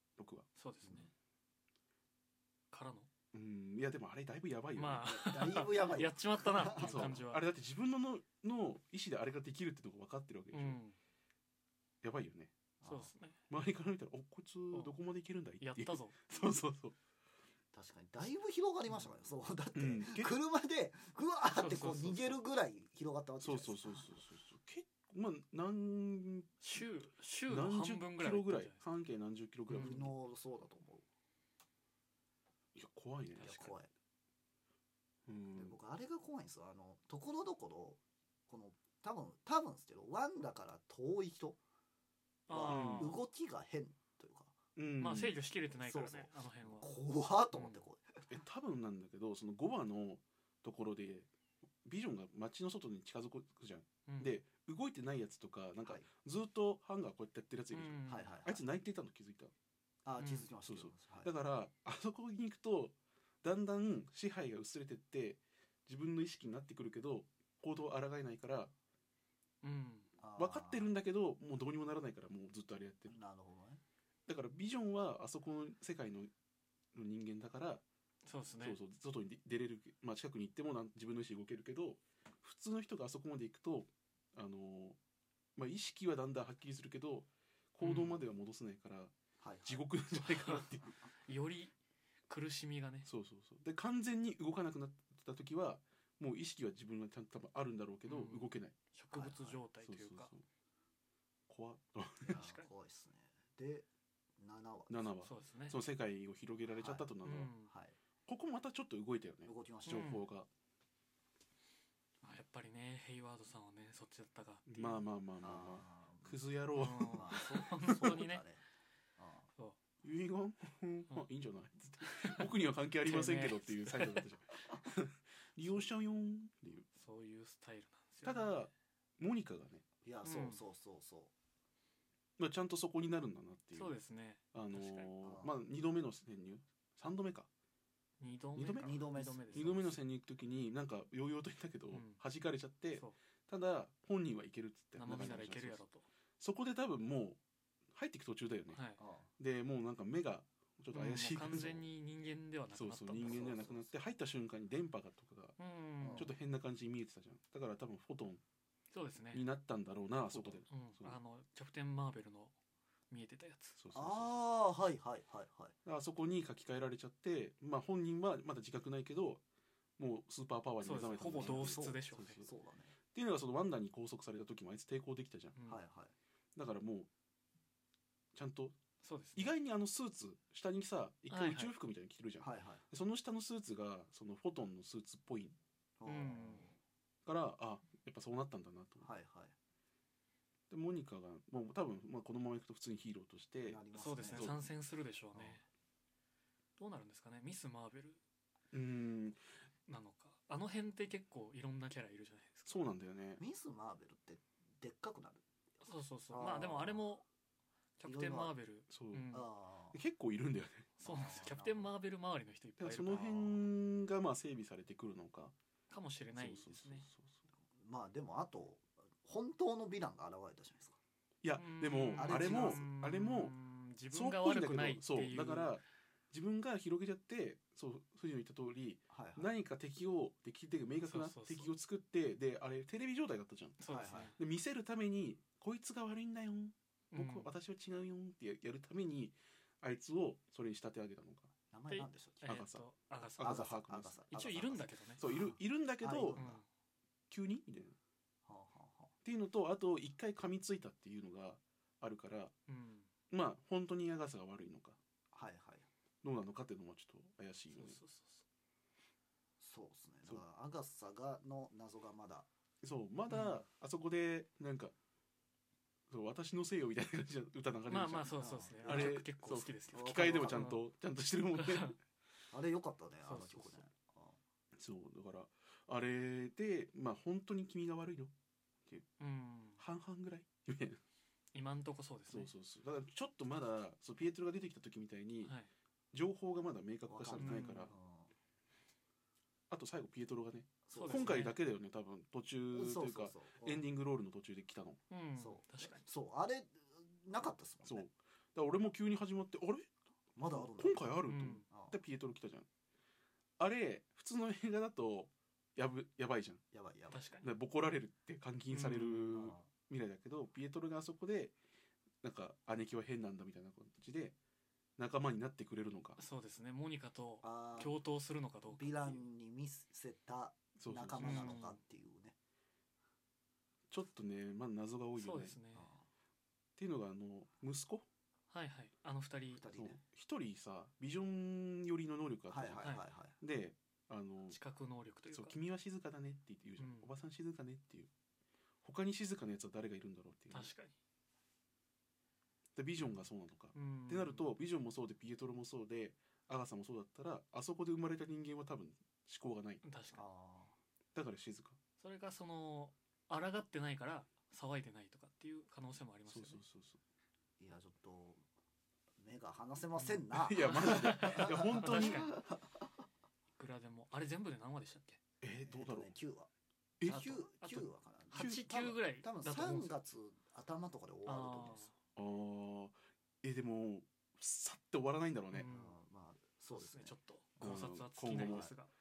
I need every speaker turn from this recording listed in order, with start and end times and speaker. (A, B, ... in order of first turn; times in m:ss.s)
0:00.2-0:00.5 A
0:00.5-0:01.1 B
0:00.8-0:01.1 C
0:02.7-0:03.1 B
0:03.3-0:05.4 A
0:04.8-0:07.4 B
0:05.0-0:07.2 C
0:06.8-0:10.8 A
0:10.5-0:11.0 B
0:12.0-0:12.5 A
0:12.8-0:13.1 C
0:12.8-0:13.4 B
0:13.5-0:17.0 A
0:15.6-0:16.2 B
0:17.7-0:24.2 C
0:19.7-0:20.3 A
0:21.5-0:22.4 B
0:23.4-0:26.6 A
0:26.6-0:28.8 B
0:27.5-0:30.1 A
0:29.7-0:30.1 B
0:29.8-0:31.0 C
0:32.7-0:33.5 A
0:33.4-0:33.7 B
0:33.4-0:33.9 C
0:35.3-0:35.7 A
0:35.5-0:41.6 C
0:42.5-0:43.2 B
0:42.5-0:44.5 C
0:42.7-0:43.2 A
0:44.8-0:45.4 A
0:45.0-0:46.9 B
0:45.7-0:48.4 C
0:47.5-0:47.8 B
0:48.3-0:51.3 A
0:51.8-0:59.5 A
0:54.0-0:54.4 B
0:55.8-0:56.1 C
0:57.7-0:58.3 B
0:58.1-0:58.6 C
1:00.0-1:01.3 C
1:00.2-1:00.5 B
1:00.6-1:08.7 A
1:09.6-1:10.1 B
1:10.2-1:10.9 C
1:10.4-1:13.2 A
1:13.1-1:13.8 C
1:14.3-1:16.3 A
1:16.9-1:17.8 A
1:18.2-1:18.8 B
1:18.6-1:25.0 A
1:25.6-1:31.0 A
1:27.8-1:28.2 B
1:29.4-1:29.9 C
1:30.1-1:30.6 B
1:31.2-1:31.7 B
1:32.3-1:33.1 B
1:33.0-1:38.7 A
1:38.0-1:40.3 B
1:39.1-1:39.6 C
1:39.8-1:40.4 A
1:41.5-1:42.4 A
1:42.2-1:42.7 B
1:42.2-1:43.9 C
1:44.4-1:45.2 C
1:44.9-1:47.5 A
1:45.2-1:45.8 B
1:46.8-1:47.1 C
1:47.2-1:47.7 B
1:47.6-1:48.0 C
1:48.2-1:50.5 A
1:49.4-1:50.1 C
1:49.8-1:50.3 B
1:52.2-1:55.0 B
1:54.7-1:58.1 A
1:55.4-1:56.4 C
1:56.7-1:58.4 B
1:57.1-1:58.6 C
1:59.2-1:59.5 C
2:00.0-2:06.9 A
2:02.0-2:04.2 B
2:06.9-2:08.6 B
2:08.2-2:09.8 A
2:10.0-2:11.3 C
2:10.2-2:10.6 B
2:12.4-2:13.9 A
2:13.7-2:15.1 B
2:14.5-2:17.5 A
2:15.2-2:15.5 C
2:18.2-2:19.8 B
2:18.6-2:18.9 A
2:18.8-2:20.0 C
2:19.5-2:25.8 A
2:21.9-2:22.2 B
2:25.0-2:26.0 B
2:26.4-2:27.4 A
2:27.9-2:28.8 A
2:28.7-2:29.0 B
2:29.0-2:29.3 C
2:29.4-2:31.8 A
2:30.9-2:33.6 B
2:32.7-2:35.6 A
2:33.2-2:33.9 C
2:35.6-2:36.3 B
2:36.0-2:36.3 C
2:36.2-2:38.4 A
2:38.9-2:39.4 B
2:39.3-2:41.2 A
2:40.3-2:42.5 B
2:43.1-2:43.8 B
2:43.8-2:44.3 A
2:43.9-2:45.8 C
2:45.8-2:49.4 A
2:50.0-2:52.5 A
2:50.8-2:52.4 B
2:51.2-2:53.0 C
2:53.1-2:55.6 A
2:55.6-2:55.8 B
2:55.6-2:56.1 C
2:56.5-2:57.1 A
2:58.3-2:58.8 A
2:59.0-2:59.5 B
2:59.4-3:05.6 A
3:01.3-3:01.7 B
3:02.4-3:02.8 C
3:06.0-3:06.7 C
3:06.0-3:06.7 B
3:07.2-3:09.1 A
3:09.0-3:09.5 C
3:10.7-3:14.6 A
3:13.6-3:14.5 C
3:13.9-3:15.6 B
3:15.3-3:15.6 C
3:16.8-3:18.2 B
3:18.7-3:19.4 A
3:19.9-3:22.8 B
3:22.7-3:23.4 A
3:23.4-3:25.4 C
3:25.8-3:27.2 B
3:26.3-3:27.1 C
3:28.0-3:29.5 B
3:28.0-3:28.5 C
3:28.9-3:29.4 A
3:29.3-3:30.0 C
3:29.9-3:31.0 A
3:31.0-3:33.6 B
3:31.0-3:31.9 C
3:32.8-3:35.5 A
3:33.1-3:33.6 C
3:35.9-3:37.1 B
3:36.3-3:37.4 A
3:37.7-3:41.0 C
3:41.4-3:43.5 A
3:41.6-3:45.8 B
3:42.2-3:42.8 C
3:44.1-4:01.5 A
3:49.1-3:49.6 C
3:51.0-3:51.7 B
3:53.8-3:54.4 B
3:53.9-3:54.3 C
3:57.1-3:57.5 B
4:01.7-4:02.6 C
4:01.9-4:03.7 B
4:02.4-4:02.8 A
4:03.4-4:04.2 A
4:03.4-4:06.6 C
4:04.3-4:05.2 B
4:05.2-4:06.4 A
4:06.3-4:06.6 B
4:07.3-4:08.0 A
4:08.4-4:09.1 C
4:09.2-4:12.5 A
4:12.7-4:13.1 B
4:13.3-4:15.0 A
4:15.3-4:15.9 C
4:16.2-4:18.0 A
4:17.7-4:18.4 B
4:19.6-4:22.5 C
4:22.8-4:24.9 A
4:23.3-4:23.6 B
4:26.1-4:32.0 A
4:27.9-4:30.8 B
4:28.4-4:29.2 C
4:29.9-4:30.7 C
4:31.6-4:31.9 B
4:32.5-4:34.4 C
4:33.2-4:33.8 B
4:34.8-4:38.3 A
4:39.2-4:39.8 B
4:39.8-4:41.0 A
4:41.5-4:42.5 B
4:42.3-4:45.5 A
4:45.4-4:45.7 B
4:46.1-4:47.9 A
4:47.0-4:48.3 C
4:47.4-4:47.9 B
4:49.7-4:55.0 A
4:50.8-4:51.5 C
4:50.9-4:51.6 B
4:52.7-4:53.9 C
4:55.1-4:56.0 B
4:55.4-4:58.1 C
4:57.8-5:02.6 A
5:00.4-5:02.0 C
5:01.2-5:01.6 B
5:03.6-5:06.6 A
5:06.7-5:07.3 C
5:07.1-5:07.5 B
5:07.4-5:11.5 A
5:08.7-5:09.5 B
5:09.3-5:09.7 C
5:12.2-5:14.4 A
5:15.0-5:16.2 A
5:16.2-5:19.2 B
5:17.4-5:18.0 C
5:18.7-5:22.3 C
5:20.8-5:21.6 A
5:21.2-5:21.8 B
5:23.9-5:25.6 A
5:25.2-5:25.9 B
5:25.7-5:26.0 C
5:26.8-5:28.0 A
5:28.5-5:29.6 B
5:29.5-5:30.0 C
5:29.7-5:34.6 A
5:32.5-5:33.4 C
5:32.8-5:33.0 B
5:34.5-5:35.5 B
5:35.3-5:38.1 A
5:36.8-5:37.1 B
5:38.8-5:40.7 A
5:40.5-5:40.9 B
5:42.8-5:49.8 A
5:43.7-5:44.5 B
5:49.8-5:50.2 B
5:50.1-5:50.7 C
5:51.1-5:51.8 A
5:52.0-5:56.6 B
5:56.3-5:57.0 A
5:57.6-5:58.4 C
5:59.2-6:02.8 C
6:00.0-6:02.4 B
6:00.3-6:02.3 A
6:03.6-6:05.2 B
6:05.4-6:06.1 A
6:05.7-6:06.5 C
6:07.0-6:07.7 A
6:07.0-6:11.9 C
6:07.0-6:10.0 B
6:08.3-6:08.8 A
6:11.2-6:11.9 B
6:12.2-6:15.7 A
6:15.5-6:16.0 B
6:15.7-6:18.7 C
6:16.7-6:18.9 B
6:17.6-6:18.7 A